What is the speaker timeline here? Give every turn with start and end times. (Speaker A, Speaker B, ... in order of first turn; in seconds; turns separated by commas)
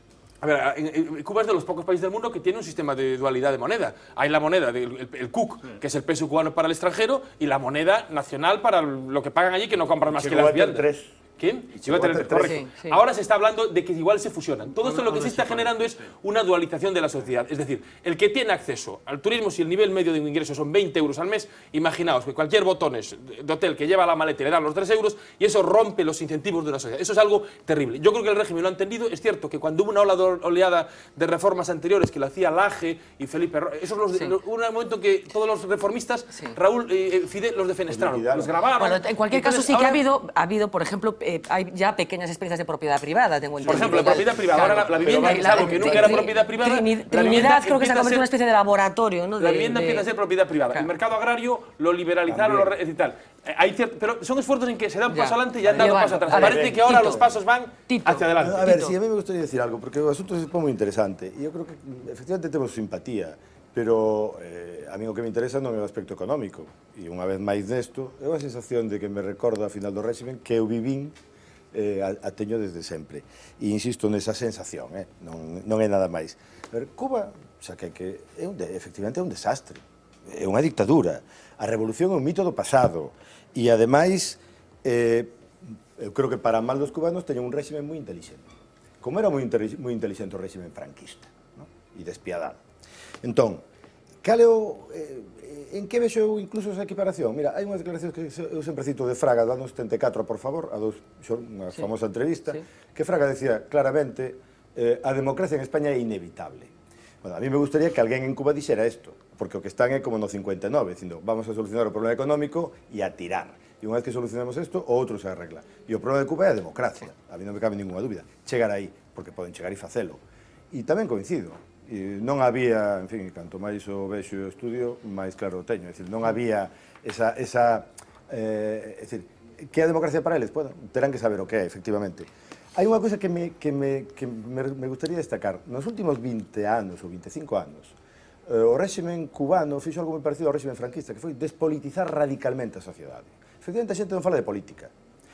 Speaker A: 0.4-40.0, Speaker B: 10.1-11.1, Speaker B: 11.7-12.6, Speaker C: 12.4-13.0, Speaker B: 14.7-16.0, Speaker B: 37.9-38.5, Speaker C: 38.8-50.1, Speaker A: 43.6-48.3, Speaker B: 43.6-46.3, Speaker A: 49.4-58.8, Speaker B: 52.3-52.7, Speaker C: 55.1-57.2, Speaker B: 55.6-57.4, Speaker C: 57.9-59.0, Speaker B: 58.4-71.1, Speaker B: 71.7-85.4, Speaker B: 86.0-88.4, Speaker B: 89.0-92.6, Speaker B: 93.2-93.6, Speaker B: 94.2-106.7, Speaker B: 107.2-144.9